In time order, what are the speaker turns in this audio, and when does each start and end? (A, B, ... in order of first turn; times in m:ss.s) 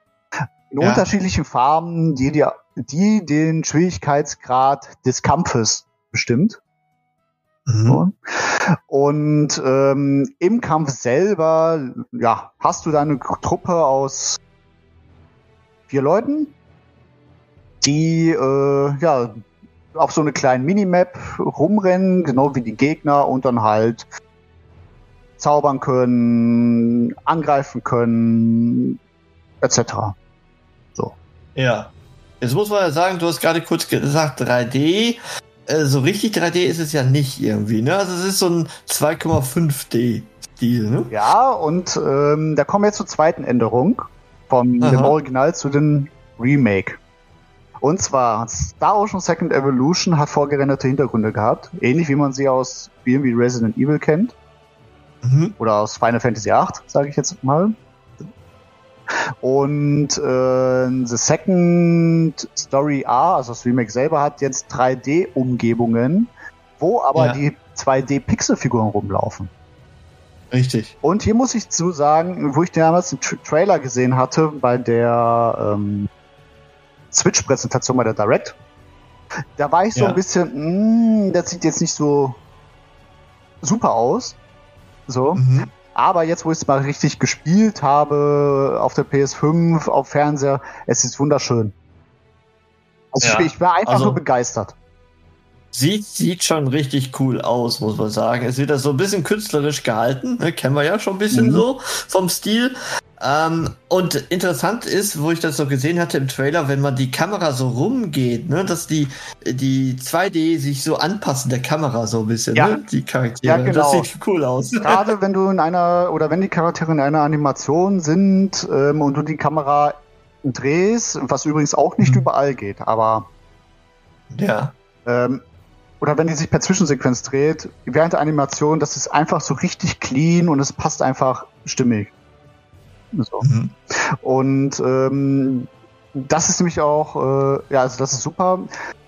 0:00.7-0:06.6 A
0:00.8-0:01.0 B
0:07.7-0:08.0 B
0:07.9-0:14.4 A
0:15.9-0:16.5 A
0:17.8-0:19.4 A
0:19.9-0:24.1 A
0:25.4-0:29.0 A
0:29.6-0:30.1 A
0:31.5-0:41.2 B
0:41.1-0:47.0 A
0:44.8-0:45.2 B
0:47.8-0:54.3 A
0:55.2-0:55.6 B
0:55.6-0:58.3 A
0:59.4-1:09.5 A
1:07.1-1:07.4 B
1:10.5-1:10.9 B
1:11.0-1:16.1 A
1:17.1-1:18.5 A
1:19.6-1:22.4 A
1:19.9-1:20.2 B
1:23.6-1:24.4 A
1:25.1-1:25.4 A
1:25.3-1:25.7 B
1:25.9-1:31.7 A
1:33.1-1:34.7 A
1:33.2-1:34.2 B
1:35.7-1:55.1 B
1:41.3-1:41.6 A
1:53.4-1:54.1 A
1:54.8-2:03.3 A
2:02.0-2:02.2 B
2:04.3-2:04.7 B
2:05.0-2:05.4 A
2:06.0-2:12.1 A
2:13.1-2:13.4 A
2:13.4-2:13.7 B
2:14.2-2:18.7 A